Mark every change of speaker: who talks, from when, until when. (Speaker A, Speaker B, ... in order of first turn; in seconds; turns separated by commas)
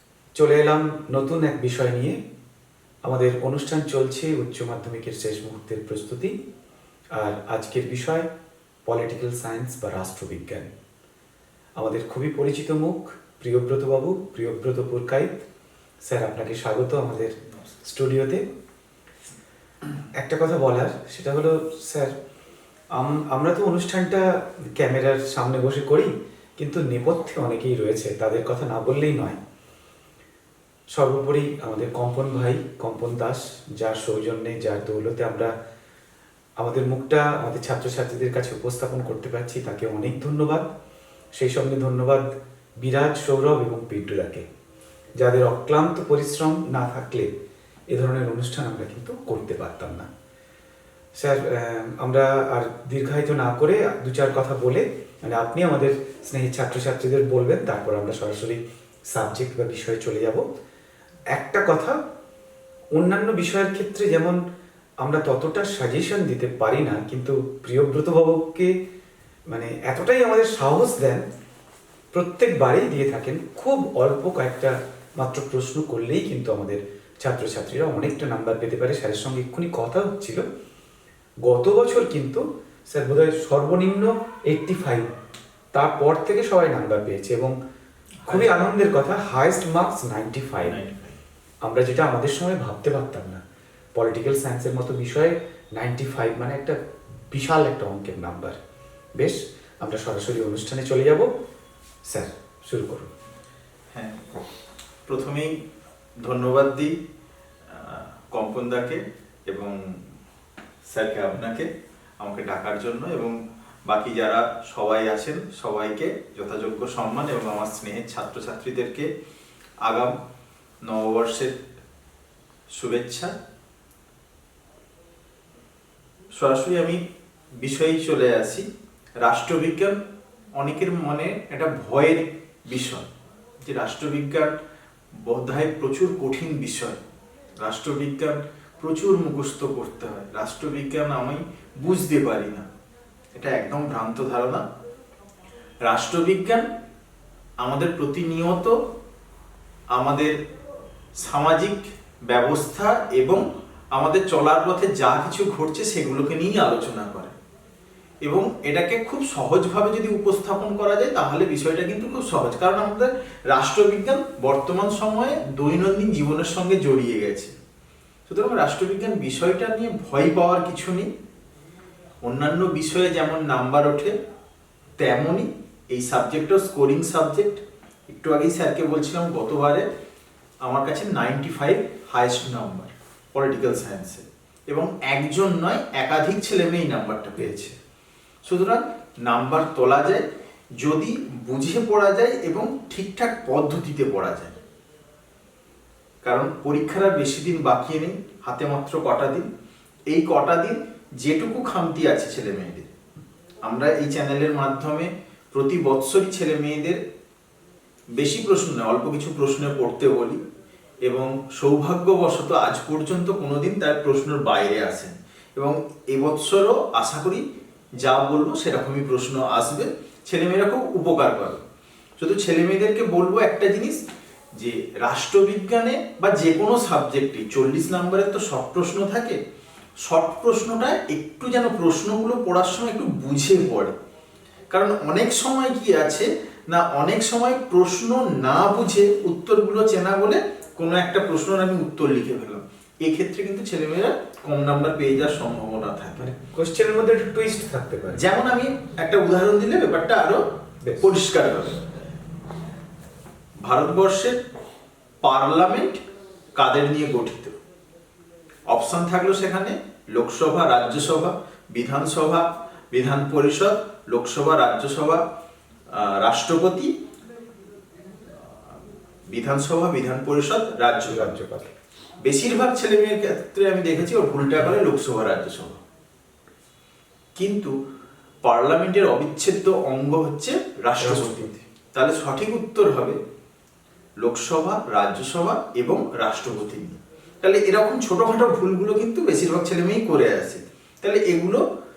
Speaker A: 0.3-2.2, Speaker A: 3.0-6.3, Speaker A: 7.2-8.3, Speaker A: 8.9-10.7, Speaker A: 11.8-15.4, Speaker A: 16.1-17.3, Speaker A: 17.8-18.4, Speaker A: 20.2-22.1, Speaker A: 22.9-29.4, Speaker A: 30.9-35.5, Speaker A: 36.6-40.6, Speaker A: 41.4-42.3, Speaker A: 42.8-44.5, Speaker A: 45.2-47.3, Speaker A: 47.9-50.1, Speaker A: 51.1-60.4, Speaker A: 61.3-62.0, Speaker A: 63.0-64.4, Speaker A: 65.0-68.7, Speaker A: 69.5-71.2, Speaker A: 72.1-80.4, Speaker A: 81.5-85.1, Speaker A: 85.7-87.5, Speaker B: 88.2-88.5, Speaker A: 88.3-90.8, Speaker B: 90.6-91.2, Speaker A: 91.6-93.4, Speaker A: 94.0-96.8, Speaker A: 97.3-98.5, Speaker A: 99.2-101.3, Speaker A: 102.1-103.1, Speaker B: 103.9-104.3, Speaker B: 105.1-105.5, Speaker B: 106.2-107.0, Speaker B: 107.7-110.0, Speaker B: 110.9-111.7, Speaker B: 112.2-119.1, Speaker B: 119.8-120.1, Speaker B: 120.8-121.6, Speaker B: 122.7-123.3, Speaker B: 126.3-127.0, Speaker B: 127.6-128.7, Speaker B: 129.2-130.0, Speaker B: 130.6-133.1, Speaker B: 133.6-134.5, Speaker B: 135.2-137.0, Speaker B: 137.6-142.7, Speaker B: 143.3-144.6, Speaker B: 145.8-146.7, Speaker B: 147.6-148.8, Speaker B: 149.9-150.3, Speaker B: 151.2-157.3, Speaker B: 158.2-167.5, Speaker B: 168.3-171.1, Speaker B: 172.2-174.1, Speaker B: 175.0-179.8, Speaker B: 180.6-187.7, Speaker B: 188.4-190.2, Speaker B: 190.8-194.6, Speaker B: 196.2-199.5, Speaker B: 200.1-202.9, Speaker B: 203.6-207.0, Speaker B: 208.2-210.4, Speaker B: 211.1-217.4, Speaker B: 218.0-221.6, Speaker B: 222.2-224.0, Speaker B: 224.5-229.4, Speaker B: 230.0-234.0, Speaker B: 234.7-246.2, Speaker A: 246.2-248.2, Speaker B: 248.1-250.4, Speaker A: 250.8-251.1, Speaker B: 251.0-251.8, Speaker B: 253.6-254.4, Speaker B: 255.2-256.0, Speaker B: 256.6-257.5, Speaker B: 258.7-265.2, Speaker B: 265.9-266.9, Speaker B: 269.3-271.4, Speaker A: 271.1-271.7, Speaker B: 272.2-275.8, Speaker B: 277.4-277.7, Speaker B: 278.4-283.2, Speaker A: 281.0-281.6, Speaker B: 284.2-291.6